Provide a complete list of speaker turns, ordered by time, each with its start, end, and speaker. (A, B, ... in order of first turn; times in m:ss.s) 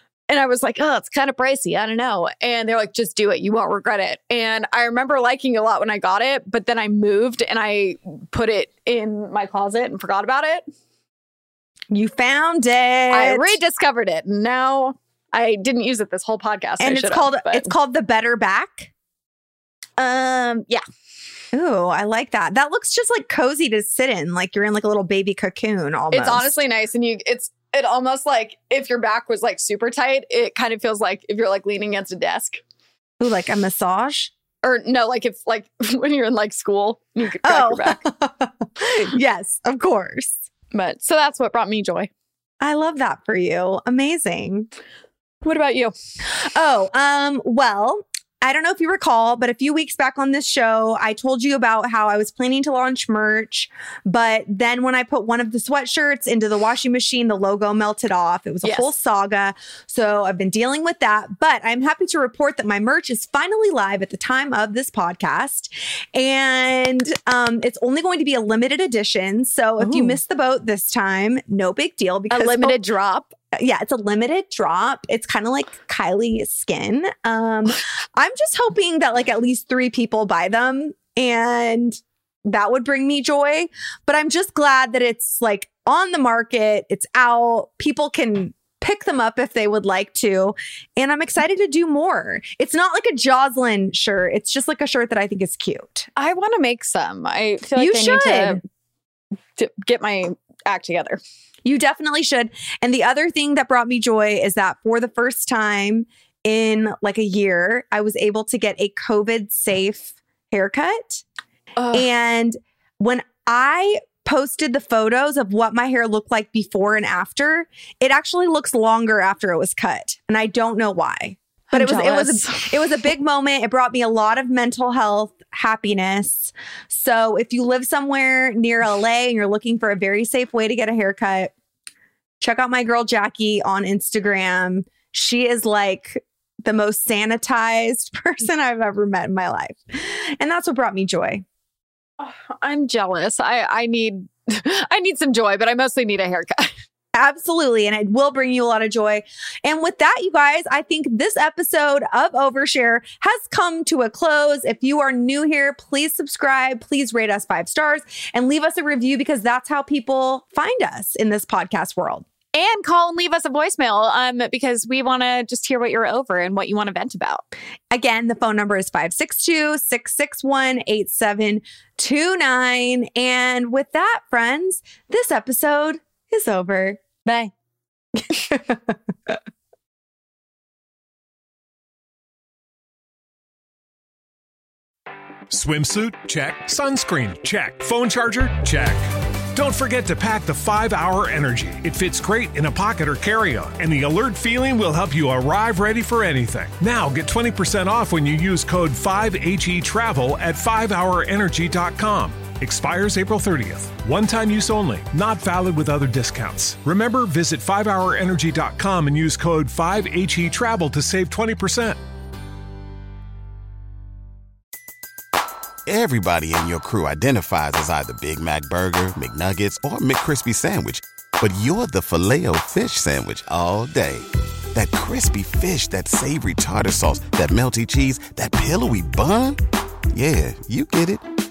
0:00.3-0:10.6 A
0:11.9-0:13.6 B
0:13.1-0:17.7 A
0:16.8-0:18.9 B
0:20.0-0:20.8 A
0:21.5-0:26.6 B
0:26.1-0:32.6 A
0:33.2-0:34.3 B
0:34.6-0:38.0 A
0:37.4-0:40.5 B
0:40.7-0:42.1 A
0:42.6-0:44.7 B
0:45.4-0:45.9 A
0:46.3-1:12.8 B
0:58.6-0:58.9 A
1:09.8-1:10.2 A
1:12.3-1:13.3 A
1:13.5-1:36.1 B
1:36.2-1:38.6 A
1:37.8-1:38.6 B
1:39.6-1:41.2 A
1:41.6-1:51.2 B
1:51.8-1:52.0 A
1:51.9-2:11.5 B
2:01.7-2:02.8 A
2:12.4-2:21.4 B
2:22.2-2:26.7 A
2:27.1-2:42.3 B
2:42.5-2:47.4 A
2:47.9-2:57.1 B
2:57.2-2:57.5 A
2:58.2-2:59.0 B
3:05.5-3:09.0 C
3:09.5-3:32.0 C
3:35.9-3:49.6 D
3:50.1-3:51.2 D